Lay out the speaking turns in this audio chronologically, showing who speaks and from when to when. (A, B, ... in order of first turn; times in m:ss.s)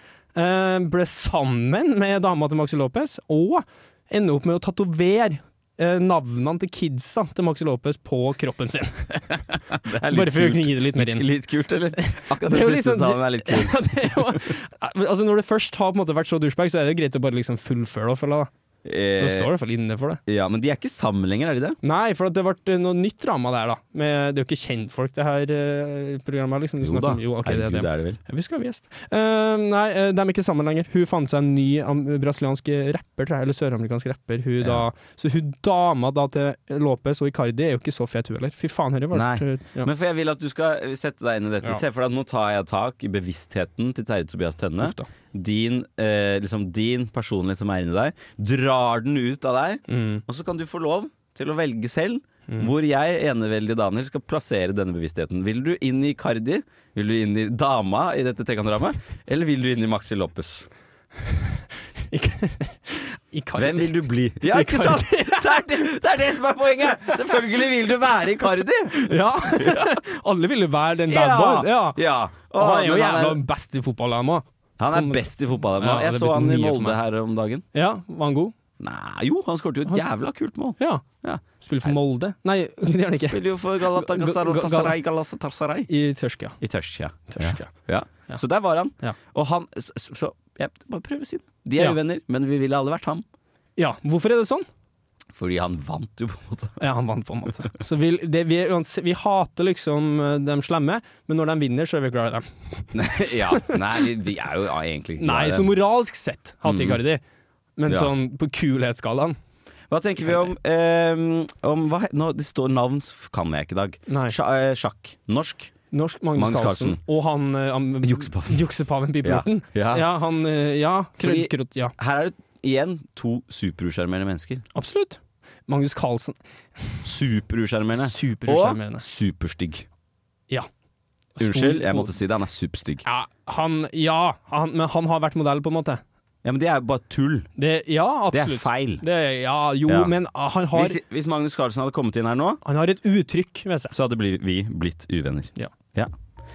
0:00.3-0:09.2 A
0:09.3-0:14.4 B
0:10.1-0:11.3 A
0:12.0-0:18.5 A
0:18.8-0:19.5 B
0:19.2-0:20.2 A
0:20.3-0:21.8 B
0:21.8-0:39.9 A
0:26.8-0:28.2 B
0:39.1-1:00.7 B
0:44.8-0:45.1 A
0:49.9-0:50.2 A
1:02.1-1:05.7 A
1:03.6-1:10.0 B
1:08.9-1:12.0 A
1:11.1-1:13.4 B
1:12.5-1:17.0 A
1:14.8-1:17.6 B
1:17.7-1:18.5 A
1:18.8-1:22.0 B
1:20.8-1:21.0 A
1:21.6-1:24.9 A
1:23.2-1:25.9 B
1:25.9-1:26.6 A
1:26.6-1:33.2 B
1:27.3-1:27.7 A
1:33.8-1:34.6 A
1:35.3-1:36.8 B
1:36.8-1:43.8 A
1:42.9-1:45.8 B
1:45.2-1:47.2 A
1:46.6-1:47.0 B
1:47.8-1:49.4 A
1:47.9-1:48.1 B
1:49.9-1:55.7 B
1:54.1-1:54.4 A
1:55.9-2:01.9 A
1:56.4-1:57.0 B
1:58.0-1:58.6 B
1:59.2-2:00.1 B
2:01.2-2:04.6 B
2:04.7-2:07.0 A
2:07.0-2:09.9 B
2:07.9-2:09.0 A
2:11.4-2:12.1 A
2:11.4-2:13.0 B
2:13.0-2:16.0 A
2:16.4-2:17.5 B
2:17.6-2:21.0 A
2:18.3-2:19.0 B
2:19.8-2:20.1 B
2:20.7-2:22.6 B
2:22.6-2:23.9 A
2:23.9-2:26.1 B